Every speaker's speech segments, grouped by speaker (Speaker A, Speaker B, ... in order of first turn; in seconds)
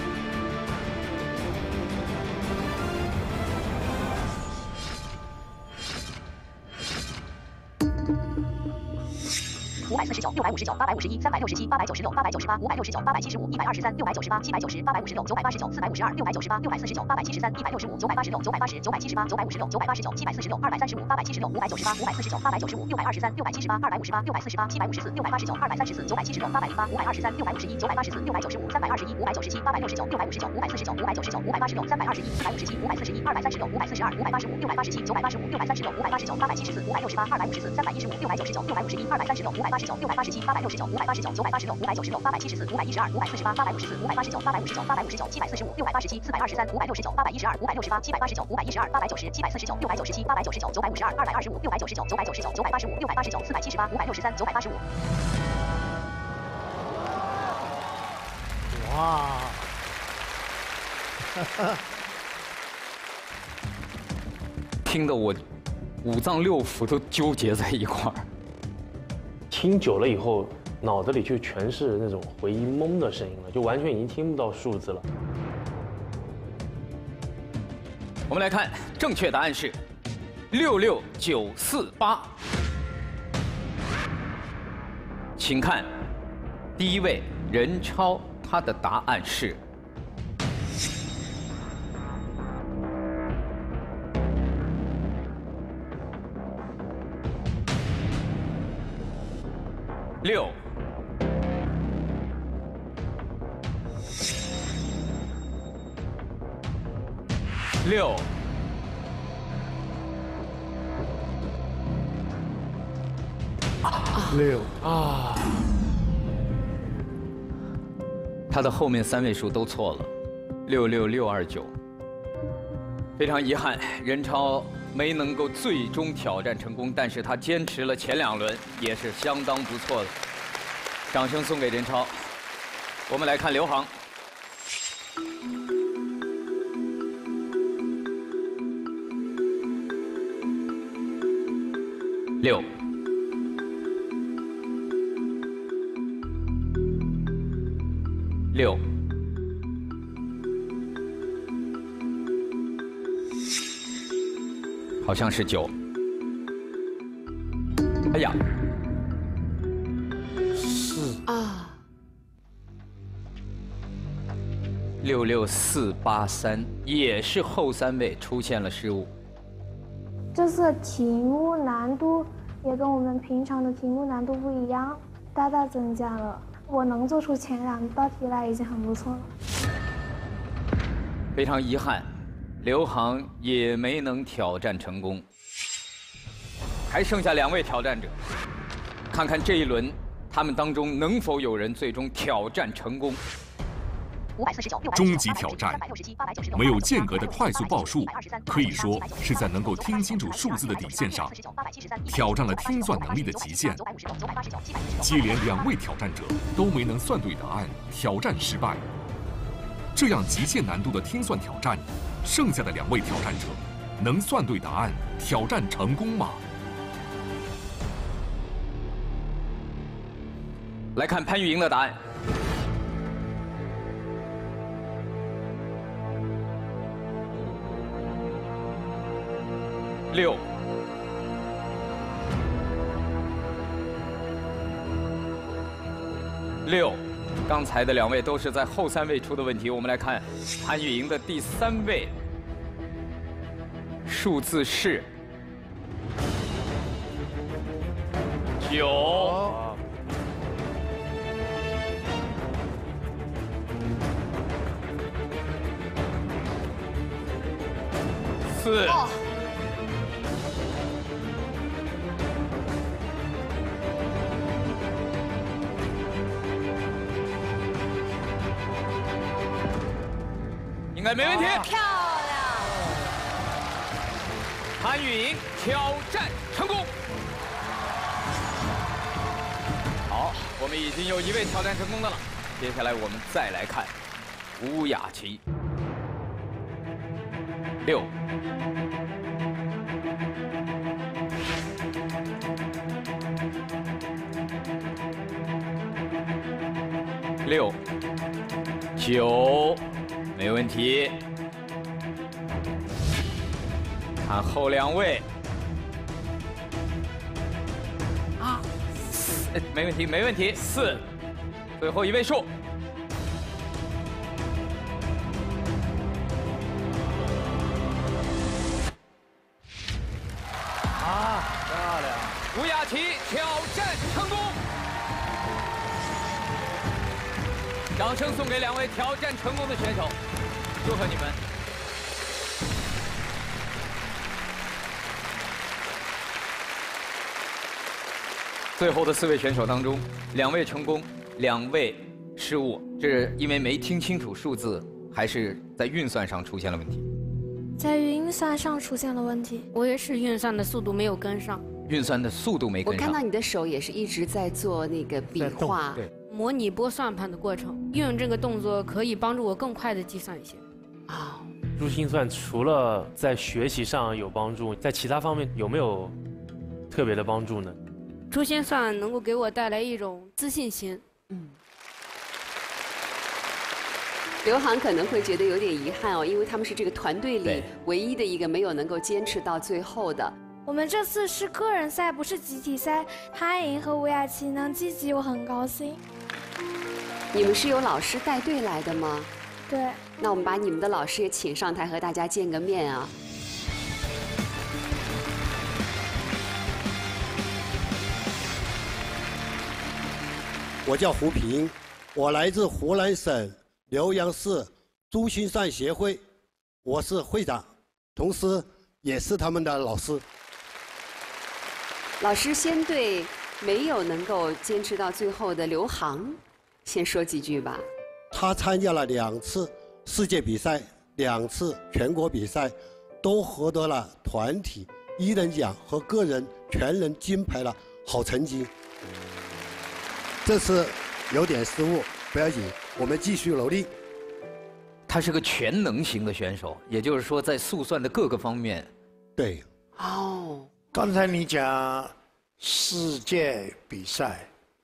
Speaker A: 9.9-54.8, 194.4-205.7
Speaker B: 58.7-59.7, 61.4-61.8, 114.3-114.7, 160.6-161.2, 249.2-249.5, 440.9-444.5
Speaker C: 64.8-65.4, 66.0-68.2, 78.3-79.8, 80.5-82.3, 85.4-85.9, 86.8-89.6, 100.2-100.5, 107.8-108.3, 118.5-120.1, 120.7-121.7, 123.2-130.1, 131.1-132.1, 133.1-133.9, 148.5-148.8, 155.0-155.7, 158.1-158.4, 165.0-169.1, 181.3-182.1, 182.6-185.2, 186.9-188.2, 189.1-193.2, 220.9-222.0, 230.1-230.4, 236.6-242.1, 244.1-245.1, 248.6-249.4, 258.5-259.0, 270.9-271.7, 274.8-276.9, 280.1-283.9, 284.6-285.4, 287.8-288.1, 297.4-297.8, 299.0-299.8, 300.3-301.2, 304.2-305.2, 309.1-311.0, 311.8-312.5, 322.5-324.6, 327.9-330.1, 330.8-331.4, 338.8-347.0, 351.9-353.2, 377.4-377.7, 435.1-438.9
Speaker D: 69.5-75.0, 114.9-115.4, 249.4-249.8, 361.8-366.1, 366.9-367.8
Speaker E: 114.1-114.4, 161.2-161.8, 352.8-356.0, 361.1-361.5, 371.3-371.6, 374.4-380.3, 387.3-389.3, 390.2-393.1, 412.2-417.8, 439.9-440.7
Speaker F: 170.3-179.3, 380.7-385.9
Speaker G: 194.9-195.8, 196.5-201.3, 202.1-203.8, 205.0-208.8, 209.9-216.4
Speaker H: 271.8-272.4, 349.7-351.6, 356.3-360.6, 368.3-371.0
Speaker I: 400.8-406.2, 406.8-410.2, 418.3-428.7, 430.4-433.9, 439.4-439.6